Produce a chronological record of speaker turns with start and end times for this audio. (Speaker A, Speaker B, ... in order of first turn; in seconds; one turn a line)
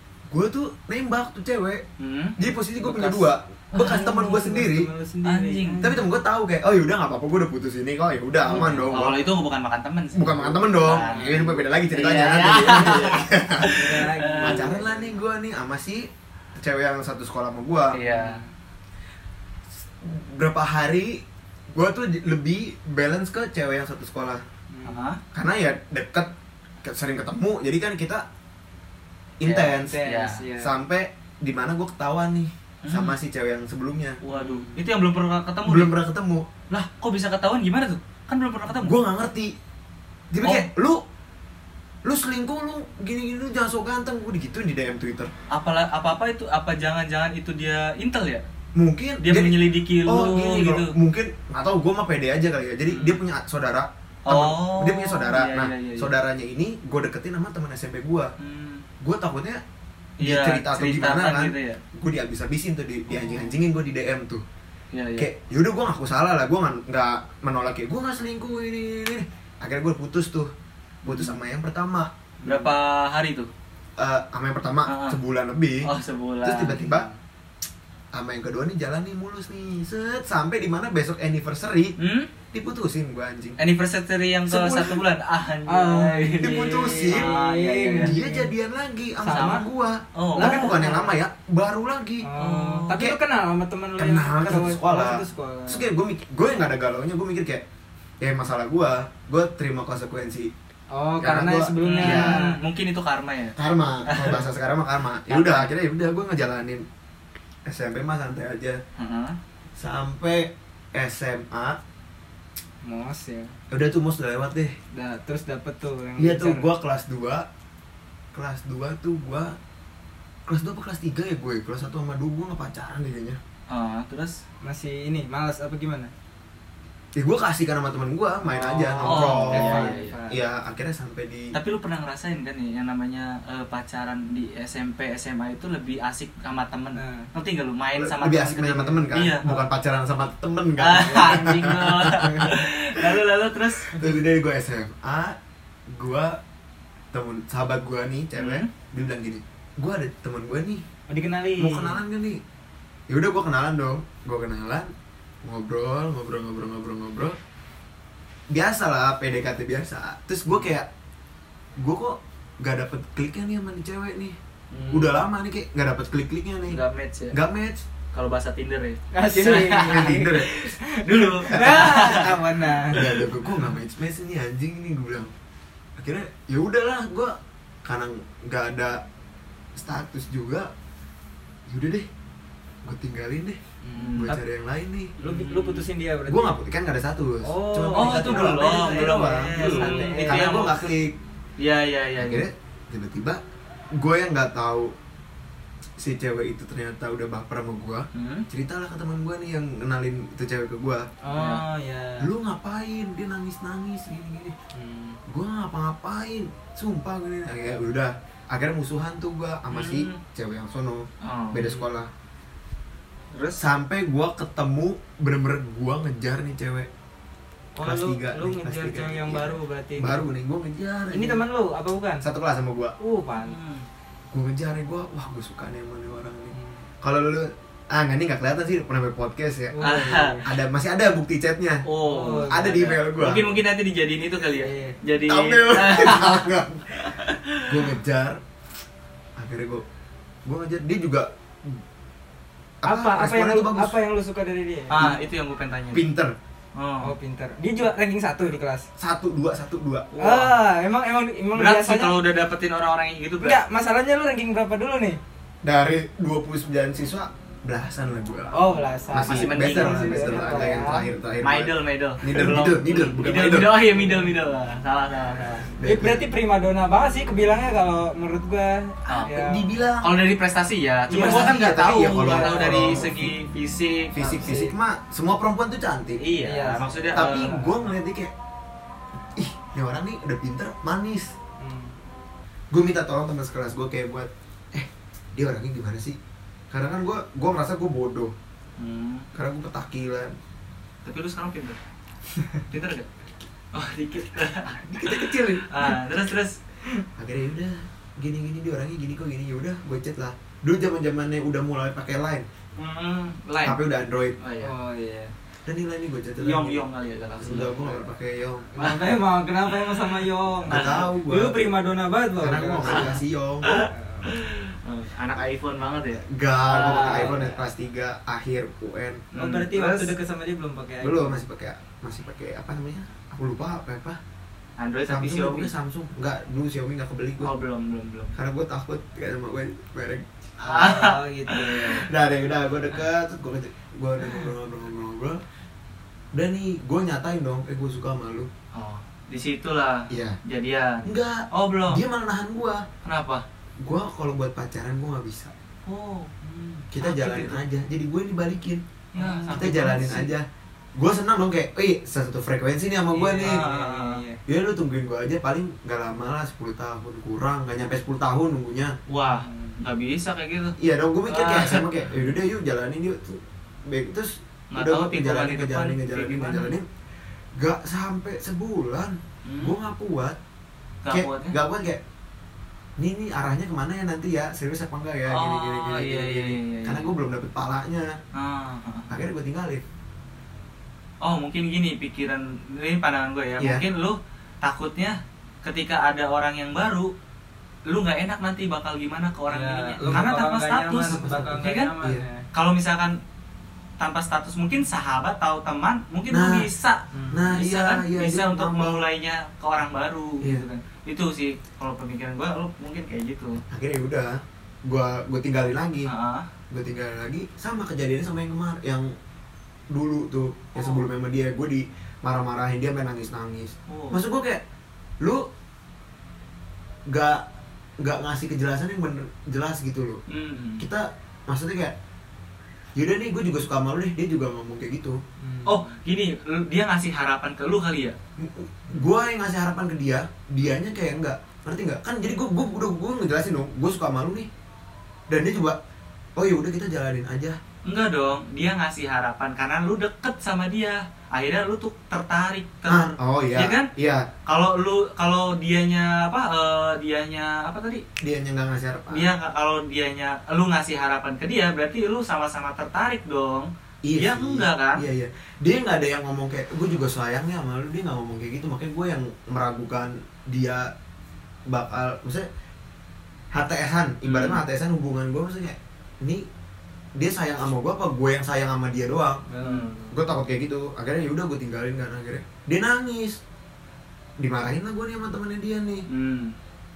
Speaker A: 0.3-1.8
Speaker B: 2.0-2.4
Speaker A: 2.4-4.9
Speaker C: 2.7-6.0
Speaker B: 5.2-5.9
Speaker A: 5.8-9.2
Speaker C: 8.4-8.8
Speaker B: 8.5-14.7
Speaker A: 10.1-13.7
Speaker C: 11.0-11.6
Speaker C: 12.4-15.1
Speaker A: 14.4-18.0
Speaker B: 17.9-18.4
Speaker C: 18.0-18.5
Speaker A: 20.0-24.4
Speaker C: 24.7-25.1
Speaker B: 24.8-25.2
Speaker A: 25.3-26.3
Speaker A: 26.8-28.2
Speaker A: 29.4-30.0
Speaker B: 29.4-30.4
Speaker C: 29.8-30.7
Speaker A: 30.6-34.2
Speaker B: 32.8-33.2
Speaker B: 34.2-35.9
Speaker C: 34.3-34.8
Speaker A: 35.6-36.6
Speaker B: 36.7-39.0
Speaker A: 38.7-39.5
Speaker A: 40.3-41.0
Speaker B: 40.4-40.7
Speaker A: 42.0-45.3
Speaker B: 45.5-48.4
Speaker A: 48.8-49.5
Speaker B: 49.2-50.9
Speaker A: 50.0-58.3
Speaker B: 52.9-53.2
Speaker B: 54.2-56.1
Speaker B: 58.4-58.8
Speaker A: 59.0-59.6
Speaker B: 60.2-61.8
Speaker A: 60.2-64.4
Speaker B: 63.2-63.5
Speaker B: 64.9-65.3
Speaker A: 65.2-70.5
Speaker A: 71.0-72.1
Speaker B: 71.0-71.4
Speaker C: 72.4-72.7
Speaker B: 72.4-73.5
Speaker A: 74.0-75.9
Speaker B: 74.9-75.2
Speaker B: 75.8-76.9
Speaker A: 76.4-77.1
Speaker C: 76.8-77.1
Speaker A: 78.1-82.0
Speaker B: 82.0-82.3
Speaker A: 82.5-83.6
Speaker B: 83.6-88.2
Speaker A: 84.5-85.0
Speaker C: 85.7-88.5
Speaker A: 86.4-87.3
Speaker A: 88.0-92.3
Speaker C: 89.2-89.7
Speaker B: 89.3-89.6
Speaker B: 90.1-90.8
Speaker C: 90.3-91.1
Speaker C: 92.2-95.9
Speaker B: 92.4-93.0
Speaker A: 94.0-97.6
Speaker A: 98.2-100.5
Speaker C: 100.9-102.6
Speaker A: 101.2-102.4
Speaker B: 101.8-103.5
Speaker A: 103.6-106.8
Speaker B: 104.1-104.4
Speaker B: 105.3-105.7
Speaker A: 107.7-108.8
Speaker B: 109.0-109.4
Speaker A: 109.8-111.8
Speaker C: 112.8-113.5
Speaker A: 113.7-114.7
Speaker C: 114.9-116.7
Speaker A: 116.2-117.5
Speaker A: 118.3-119.5
Speaker A: 120.5-123.4
Speaker B: 123.7-124.4
Speaker C: 124.6-126.1
Speaker A: 127.2-131.5
Speaker C: 128.4-130.4
Speaker B: 129.0-130.2
Speaker B: 131.5-139.6
Speaker C: 136.9-137.3
Speaker A: 138.0-143.2
Speaker B: 140.8-144.1
Speaker C: 141.0-142.5
Speaker A: 143.9-145.4
Speaker A: 145.9-146.4
Speaker A: 147.1-150.8
Speaker B: 148.3-148.7
Speaker C: 151.1-152.0
Speaker A: 151.6-152.4
Speaker A: 153.1-154.9
Speaker A: 155.4-157.4
Speaker A: 158.5-160.9
Speaker A: 161.8-164.4
Speaker B: 164.7-165.2
Speaker A: 164.9-166.8
Speaker B: 166.7-167.4
Speaker A: 167.3-167.8
Speaker B: 168.1-173.6
Speaker C: 169.1-173.1
Speaker A: 169.8-170.7
Speaker A: 172.9-175.3
Speaker A: 176.0-179.0
Speaker A: 179.7-180.7
Speaker A: 181.7-182.1
Speaker A: 182.8-183.6
Speaker C: 183.8-184.4
Speaker B: 183.9-184.3
Speaker A: 184.2-185.1
Speaker C: 185.2-186.6
Speaker B: 185.2-185.8
Speaker A: 186.3-191.2
Speaker C: 187.4-190.7
Speaker B: 187.9-190.9
Speaker B: 191.6-192.5
Speaker A: 192.2-193.4
Speaker A: 194.0-194.9
Speaker A: 196.0-201.0
Speaker B: 198.1-198.5
Speaker C: 201.2-202.3
Speaker B: 201.3-201.6
Speaker A: 202.2-204.5
Speaker C: 204.7-205.2
Speaker A: 205.3-212.1
Speaker B: 209.7-210.2
Speaker B: 211.2-211.8
Speaker A: 213.6-216.9
Speaker C: 217.8-220.2
Speaker A: 217.8-221.4
Speaker C: 221.1-222.3
Speaker A: 222.2-222.9
Speaker C: 223.0-223.6
Speaker B: 223.4-223.8
Speaker A: 224.3-231.8
Speaker C: 226.5-226.8
Speaker C: 229.7-230.4
Speaker B: 229.8-230.5
Speaker B: 231.8-237.9
Speaker C: 232.0-232.9
Speaker A: 232.5-233.6
Speaker C: 234.5-235.0
Speaker A: 235.2-237.1
Speaker A: 237.7-238.4
Speaker A: 239.4-239.8
Speaker A: 240.4-241.8
Speaker A: 242.8-243.9
Speaker C: 242.8-245.1
Speaker B: 244.9-246.0
Speaker A: 245.9-246.3
Speaker B: 246.7-247.1
Speaker C: 247.0-248.9
Speaker A: 249.0-250.1
Speaker B: 250.1-250.5
Speaker C: 250.2-252.1
Speaker B: 251.5-253.6
Speaker C: 253.4-255.2
Speaker A: 255.6-258.5
Speaker C: 258.5-261.1
Speaker A: 259.1-263.8
Speaker B: 259.2-260.9
Speaker B: 261.4-265.7
Speaker C: 263.9-264.3
Speaker A: 265.8-266.3
Speaker C: 265.8-269.6
Speaker B: 269.1-269.4
Speaker A: 269.2-270.1
Speaker B: 270.0-274.5
Speaker C: 271.1-273.1
Speaker A: 271.1-273.3
Speaker A: 274.1-276.2
Speaker C: 274.2-274.7
Speaker B: 276.2-277.5
Speaker C: 276.4-277.9
Speaker A: 277.1-278.3
Speaker A: 279.4-281.3
Speaker C: 281.6-281.9
Speaker A: 282.7-286.2
Speaker A: 286.7-288.3
Speaker B: 288.8-289.3
Speaker A: 289.3-290.3
Speaker B: 291.0-291.8
Speaker B: 292.7-293.1
Speaker B: 293.7-296.6
Speaker A: 294.9-295.9
Speaker A: 297.2-302.4
Speaker B: 302.8-303.8
Speaker A: 303.6-304.4
Speaker B: 304.4-304.7
Speaker C: 304.6-305.3
Speaker A: 305.6-306.9
Speaker B: 306.4-308.0
Speaker A: 307.4-308.7
Speaker C: 308.7-313.1
Speaker B: 308.8-309.1
Speaker B: 309.7-311.1
Speaker A: 310.7-311.6
Speaker A: 312.4-313.8
Speaker B: 312.8-317.4
Speaker C: 313.9-314.3
Speaker A: 316.2-319.2
Speaker C: 316.7-317.5
Speaker B: 319.3-320.1
Speaker C: 319.3-321.4
Speaker A: 321.0-324.2
Speaker B: 324.8-325.7
Speaker A: 325.1-327.5
Speaker B: 327.4-328.4
Speaker A: 328.4-331.0
Speaker B: 330.6-332.0
Speaker C: 330.7-332.1
Speaker A: 332.0-335.4
Speaker A: 336.3-338.5
Speaker B: 338.7-342.0
Speaker A: 340.1-340.4
Speaker A: 341.0-342.8
Speaker B: 343.0-343.4
Speaker A: 343.8-345.5
Speaker B: 345.9-347.6
Speaker A: 346.9-348.8
Speaker C: 349.1-349.8
Speaker B: 349.1-350.3
Speaker A: 349.5-353.6
Speaker C: 353.1-354.4
Speaker B: 353.4-354.2
Speaker A: 354.5-359.0
Speaker B: 359.1-360.8
Speaker C: 359.2-359.7
Speaker A: 360.8-366.9
Speaker B: 361.3-361.9
Speaker B: 364.7-366.8
Speaker A: 367.5-370.4
Speaker B: 369.4-369.8
Speaker B: 371.0-371.6
Speaker A: 371.1-372.0
Speaker A: 373.0-378.1
Speaker B: 375.3-377.1
Speaker B: 378.3-379.1
Speaker A: 379.1-379.8
Speaker B: 381.2-387.1
Speaker A: 383.6-383.8
Speaker B: 387.9-391.9
Speaker C: 389.5-392.4
Speaker A: 390.0-390.3
Speaker A: 391.1-392.2
Speaker B: 392.5-393.2
Speaker B: 394.0-403.6
Speaker A: 396.3-396.7
Speaker C: 397.1-397.5
Speaker A: 397.3-399.0
Speaker A: 403.7-406.1
Speaker B: 406.1-406.5
Speaker A: 406.7-409.1
Speaker A: 409.9-414.6
Speaker B: 410.8-411.0
Speaker B: 413.9-414.2
Speaker A: 417.1-417.4
Speaker A: 418.0-420.2
Speaker B: 420.3-420.9
Speaker A: 420.8-421.9
Speaker A: 422.9-425.2
Speaker C: 425.4-426.0
Speaker B: 425.6-428.1
Speaker A: 428.4-434.5
Speaker A: 435.3-435.8
Speaker A: 436.4-437.6
Speaker B: 437.8-443.9
Speaker A: 442.9-444.3
Speaker B: 444.5-448.0
Speaker A: 448.2-449.3
Speaker B: 449.1-455.0
Speaker A: 454.0-460.9
Speaker A: 461.7-462.5
Speaker A: 463.5-466.4
Speaker B: 464.2-464.6
Speaker A: 467.2-469.4
Speaker C: 469.5-470.2
Speaker B: 469.6-470.0
Speaker A: 470.1-473.4
Speaker A: 474.4-476.1
Speaker B: 476.1-476.5